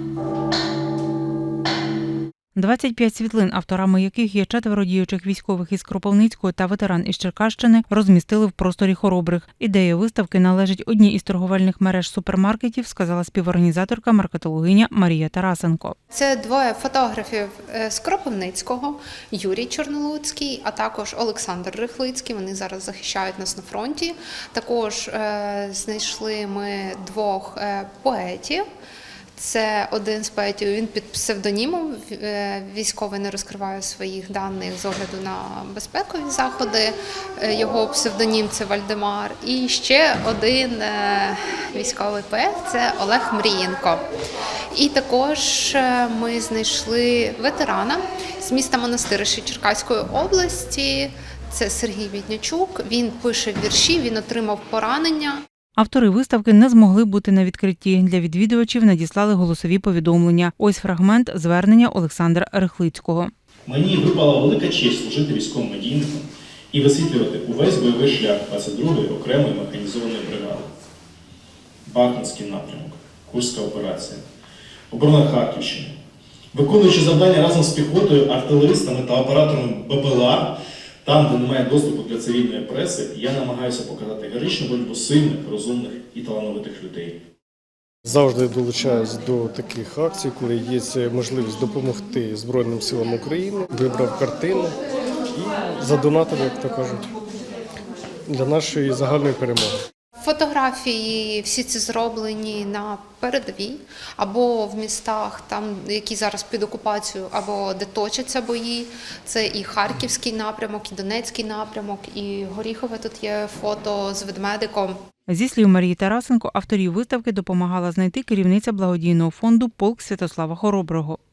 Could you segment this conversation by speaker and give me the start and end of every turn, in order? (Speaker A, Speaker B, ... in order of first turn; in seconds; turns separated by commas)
Speaker A: 2.5-15.9, Speaker B: 16.1-28.6, Speaker B: 29.4-44.0, Speaker B: 44.7-55.4, Speaker A: 55.8-63.3, Speaker C: 63.6-70.7, Speaker C: 71.8-74.2, Speaker C: 74.9-75.9, Speaker C: 76.5-80.5, Speaker C: 81.0-87.2, Speaker D: 88.0-94.8, Speaker D: 95.3-97.1, Speaker D: 98.3-99.7, Speaker B: 100.2-115.0, Speaker A: 115.3-121.2